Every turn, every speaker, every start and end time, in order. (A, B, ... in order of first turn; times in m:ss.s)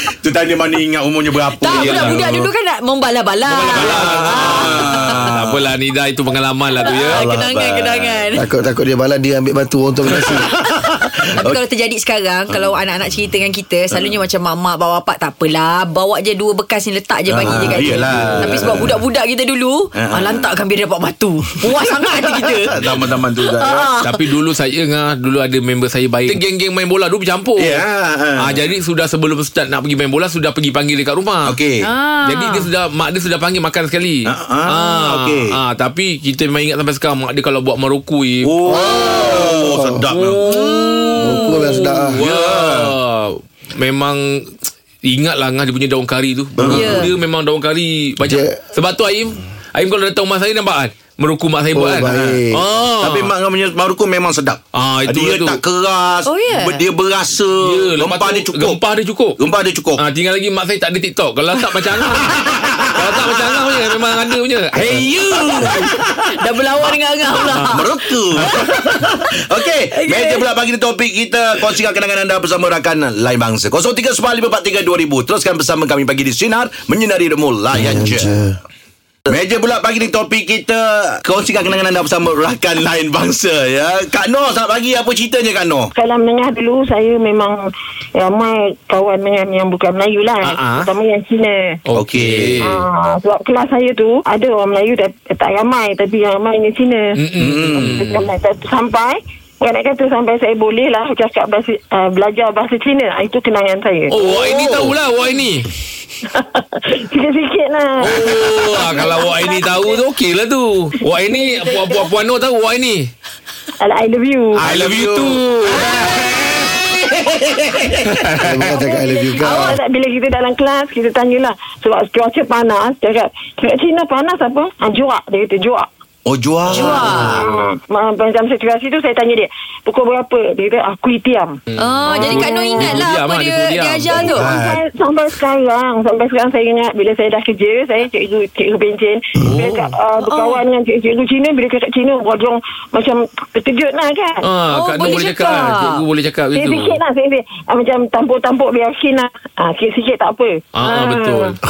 0:00.2-0:02.5 A
0:01.6-0:05.2 B
0:01.7-0:02.3 C
0:03.5-0:07.2 C
0:03.5-0:05.5 A
0:06.8-0:08.4 B
0:07.1-0:08.2 A
0:08.3-0:10.5 D
0:10.8-0:11.6 A
0:11.4-0:24.2 B
0:12.5-0:12.8 A
0:13.9-0:14.2 A
0:17.3-0:19.0 A
0:18.2-0:18.5 C
0:19.9-0:20.5 A
0:22.1-0:23.9 A
0:24.0-0:27.8 C
0:27.6-0:28.6 A
0:28.4-0:31.5 C
0:31.5-0:31.8 A
0:31.8-0:32.7 B
0:32.2-0:38.9 C
0:34.3-0:35.5 A
0:38.4-0:40.4 A
0:38.7-0:40.0 D
0:40.1-0:44.5 C
0:40.5-0:41.8 B
0:41.2-0:42.2 D
0:42.2-0:42.9 A
0:45.0-0:53.3 C
0:46.6-0:47.1 D
0:46.7-0:47.1 B
0:48.2-0:48.6 D
0:51.7-0:52.6 D
0:53.0-0:58.8 A
0:54.7-0:55.6 C
0:56.2-0:56.8 B
0:57.6-0:59.4 C
0:59.4-1:00.0 A
1:00.0-1:05.9 C
1:02.3-1:03.3 A
1:04.9-1:08.6 B
1:07.6-1:18.4 A
1:09.9-1:10.4 B
1:17.7-1:18.6 D
1:19.3-1:25.9 A
1:25.9-1:27.6 E
1:28.2-1:31.8 E
1:30.4-1:30.9 C
1:31.9-1:32.8 C
1:31.9-1:32.6 A
1:32.6-1:37.2 E
1:37.1-1:38.3 C
1:37.4-1:37.9 A
1:37.8-1:44.5 E
1:44.1-1:45.7 C
1:44.3-1:44.9 A
1:46.2-1:50.0 E
1:48.0-1:53.1 C
1:51.1-1:52.1 E
1:53.8-1:54.7 E
1:54.6-1:55.8 C
1:54.6-1:57.0 A
1:55.8-1:56.1 E
1:58.1-1:58.8 C
1:58.3-1:59.8 D
1:58.7-2:05.9 E
2:06.2-2:07.5 A
2:06.7-2:07.5 B
2:07.3-2:13.0 E
2:11.7-2:14.3 C
2:11.8-2:14.5 B
2:14.1-2:14.8 A
2:14.4-2:24.4 E
2:19.4-2:20.0 C
2:20.2-2:20.6 B
2:24.4-2:27.0 C
2:24.7-2:26.0 B
2:25.0-2:25.6 E
2:26.5-2:31.6 E
2:30.7-2:31.6 C